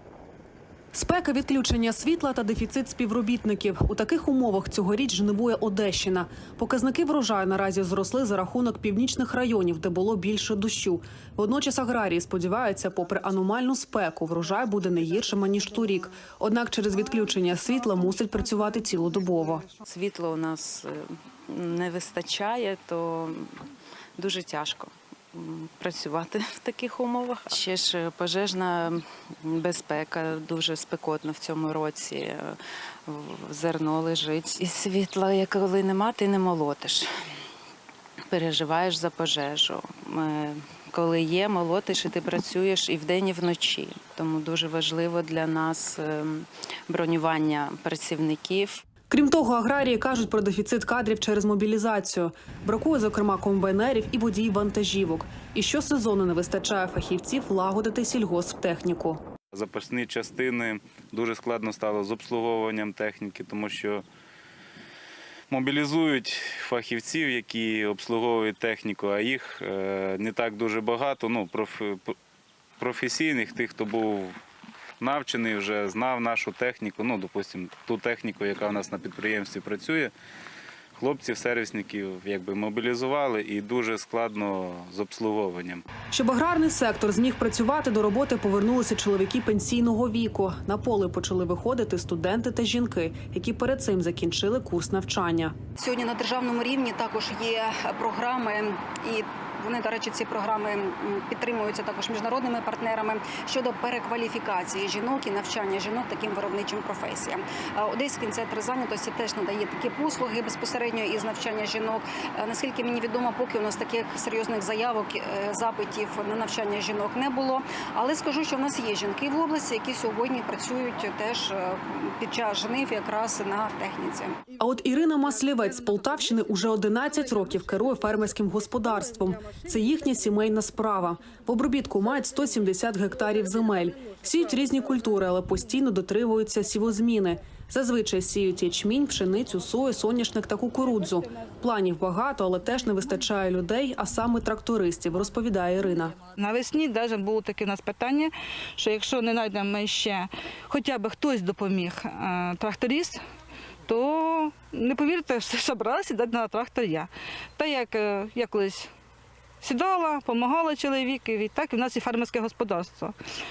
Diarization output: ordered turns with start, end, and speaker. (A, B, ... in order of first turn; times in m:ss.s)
0:00.9-0:19.8 A
0:19.8-0:23.6 B
0:24.2-0:37.1 B
0:38.3-0:48.8 B
0:49.1-0:59.2 A
0:59.5-1:04.0 C
1:05.5-1:12.2 C
1:12.8-1:14.4 C
1:15.0-1:20.1 C
1:21.0-1:25.8 C
1:26.1-1:35.6 A
1:35.8-2:04.3 D
2:04.6-2:26.2 A
2:26.2-2:33.2 E
2:33.9-2:38.9 E
2:39.6-2:43.2 E